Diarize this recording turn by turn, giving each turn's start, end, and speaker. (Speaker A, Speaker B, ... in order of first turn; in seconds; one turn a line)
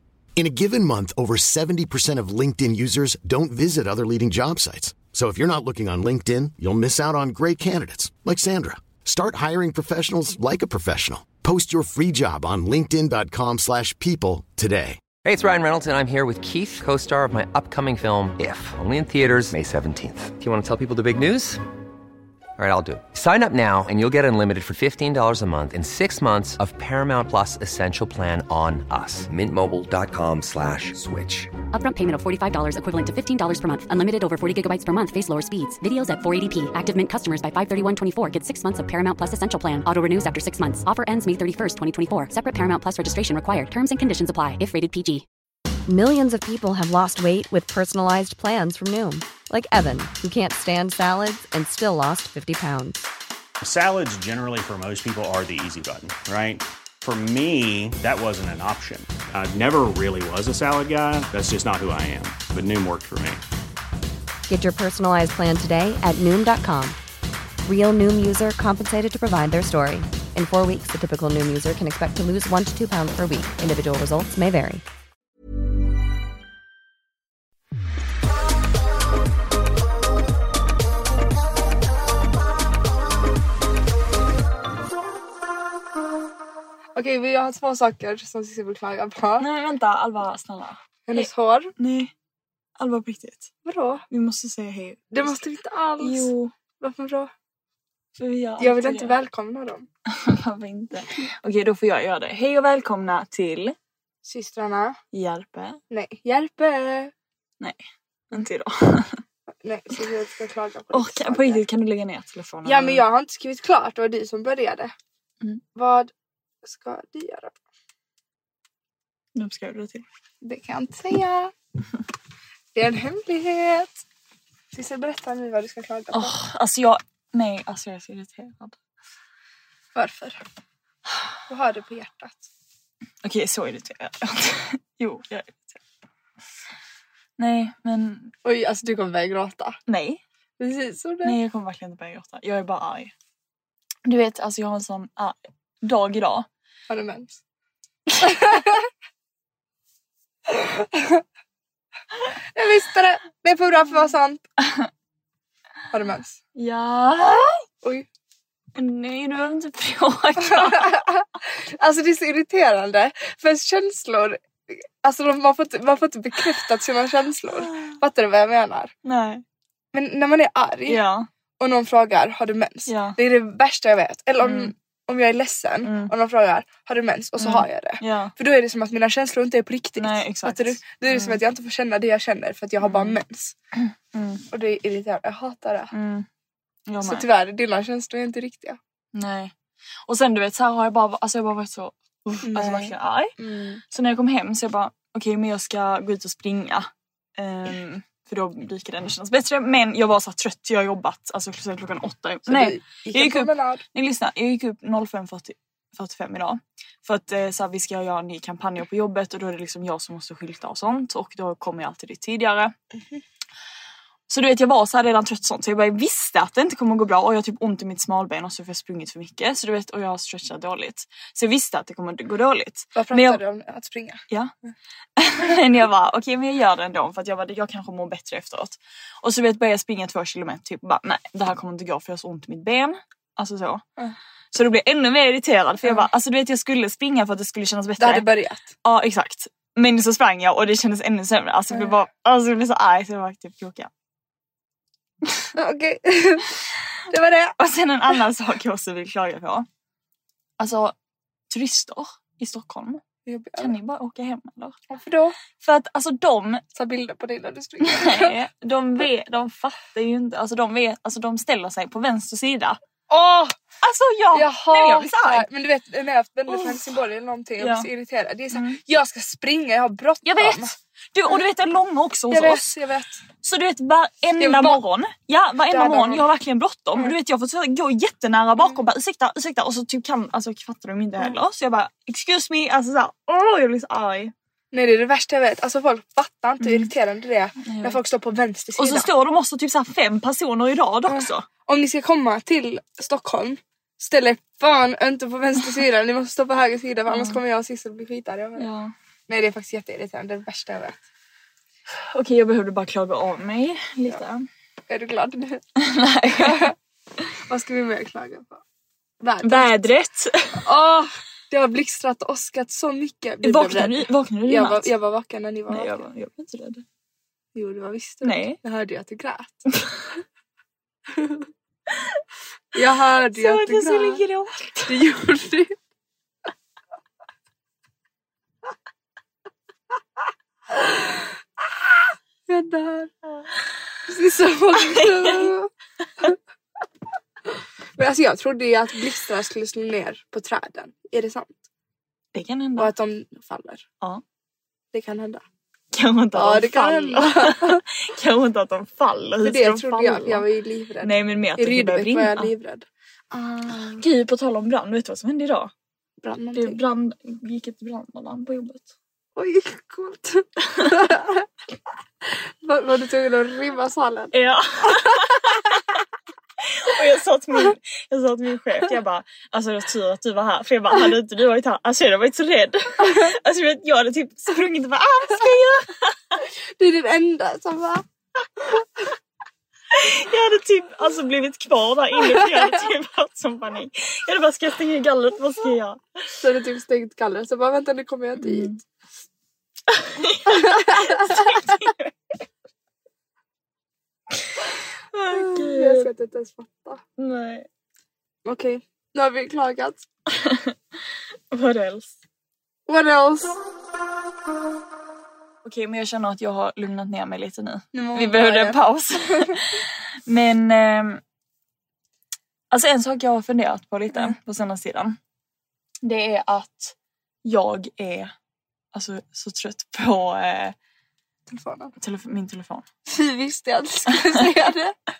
Speaker A: 0.3-15.0
Speaker B: 15.2-21.6
Speaker B: 22.6-31.5
Speaker C: 31.7-45.2
Speaker D: 45.9-53.0
Speaker E: 53.6-63.4
Speaker D: 64.5-67.0
Speaker D: 67.6-74.8
Speaker F: 86.9-89.5
Speaker G: 89.4-92.1
Speaker F: 91.1-91.7
Speaker G: 92.8-93.5
Speaker F: 93.6-94.0
Speaker G: 94.1-95.4
Speaker F: 95.1-97.3
Speaker G: 96.0-96.5
Speaker G: 98.2-99.2
Speaker F: 98.6-99.9
Speaker G: 100.1-103.8
Speaker F: 104.2-105.0
Speaker G: 105.1-105.8
Speaker F: 105.9-107.1
Speaker G: 108.3-109.2
Speaker F: 109.5-111.6
Speaker G: 110.9-113.0
Speaker F: 112.6-114.9
Speaker F: 115.7-116.1
Speaker F: 116.6-117.6
Speaker G: 119.3-120.0
Speaker F: 120.4-121.5
Speaker F: 122.7-124.0
Speaker F: 124.7-126.3
Speaker G: 126.1-128.8
Speaker F: 129.9-130.4
Speaker F: 131.5-132.5
Speaker G: 133.2-135.8
Speaker G: 137.4-138.3
Speaker F: 138.4-139.8
Speaker G: 139.9-140.2
Speaker F: 140.6-141.3
Speaker G: 141.2-143.1
Speaker G: 144.0-146.5
Speaker F: 146.9-147.4
Speaker F: 148.2-148.8
Speaker F: 150.5-151.2
Speaker F: 152.5-154.4
Speaker F: 155.9-156.4
Speaker G: 156.6-157.6
Speaker G: 158.7-161.0
Speaker F: 160.4-168.9
Speaker G: 167.6-167.9
Speaker G: 169.0-169.4
Speaker F: 169.9-171.0
Speaker G: 170.9-171.3
Speaker F: 171.6-183.5
Speaker G: 172.9-173.2
Speaker G: 174.4-174.7
Speaker G: 175.8-176.1
Speaker G: 177.4-178.3
Speaker G: 180.0-181.4
Speaker G: 182.8-183.2
Speaker G: 184.1-184.4
Speaker F: 184.5-185.9
Speaker G: 185.9-186.2
Speaker G: 186.9-187.2
Speaker F: 187.0-188.8
Speaker G: 189.1-189.5
Speaker G: 190.1-212.7
Speaker F: 192.4-193.8
Speaker F: 202.5-203.8
Speaker G: 214.3-223.4
Speaker F: 222.9-224.2
Speaker G: 225.2-233.8
Speaker G: 234.5-238.3
Speaker F: 238.0-238.7
Speaker G: 238.8-243.9
Speaker F: 245.5-246.6
Speaker F: 247.1-247.5
Speaker G: 247.6-249.7
Speaker G: 250.6-250.9
Speaker G: 251.5-253.0
Speaker F: 253.2-253.7
Speaker G: 253.6-254.8
Speaker F: 254.9-255.4
Speaker G: 255.6-256.6
Speaker F: 256.7-258.3
Speaker G: 257.8-262.8
Speaker F: 263.1-263.6
Speaker G: 263.8-265.5
Speaker F: 264.3-270.7
Speaker G: 266.5-266.9
Speaker G: 267.6-267.9
Speaker G: 268.5-268.8
Speaker G: 270.2-272.6
Speaker F: 272.3-273.2
Speaker G: 273.4-284.3
Speaker F: 274.4-274.8
Speaker F: 275.7-276.2
Speaker F: 284.7-289.1
Speaker G: 286.6-286.9
Speaker G: 287.6-288.0
Speaker G: 288.8-291.4
Speaker F: 291.1-298.7
Speaker G: 297.1-297.4
Speaker G: 298.6-298.9
Speaker F: 299.3-301.0
Speaker G: 302.1-304.4
Speaker F: 304.9-305.6
Speaker G: 305.8-306.7
Speaker F: 306.3-306.7
Speaker F: 307.5-308.6
Speaker F: 309.2-309.8
Speaker G: 309.4-310.6
Speaker F: 310.6-316.0
Speaker G: 313.4-314.9
Speaker G: 315.7-316.8
Speaker F: 317.5-319.7
Speaker G: 318.2-318.6
Speaker F: 321.1-321.5
Speaker F: 322.7-324.2
Speaker G: 323.3-325.0
Speaker F: 324.9-325.8
Speaker F: 330.7-331.3
Speaker F: 332.0-333.1
Speaker F: 334.1-335.7
Speaker G: 334.8-335.5
Speaker F: 338.0-341.6
Speaker G: 342.3-342.9
Speaker F: 342.8-343.8
Speaker F: 344.9-345.4
Speaker G: 345.9-350.4
Speaker F: 346.3-347.8
Speaker F: 349.4-354.0
Speaker G: 351.0-352.5
Speaker G: 353.7-355.7
Speaker F: 356.2-356.8
Speaker G: 356.5-358.9
Speaker F: 359.4-361.5
Speaker F: 362.6-364.3
Speaker G: 364.3-365.9
Speaker F: 364.8-365.8
Speaker G: 366.6-376.1
Speaker F: 373.0-373.3
Speaker F: 376.8-378.0
Speaker G: 379.9-386.0
Speaker F: 386.4-388.8
Speaker G: 388.4-388.8
Speaker G: 389.9-392.1
Speaker F: 390.5-391.8
Speaker G: 395.1-396.1
Speaker F: 395.3-397.0
Speaker G: 397.2-397.7
Speaker F: 398.4-400.0
Speaker G: 400.3-400.7
Speaker G: 401.5-402.1
Speaker F: 402.9-403.6
Speaker G: 405.6-411.2
Speaker F: 407.9-409.5
Speaker G: 412.7-415.2
Speaker G: 416.0-416.9
Speaker G: 417.4-418.3
Speaker G: 418.9-420.7
Speaker F: 421.5-421.9
Speaker G: 422.0-422.9
Speaker F: 423.1-424.9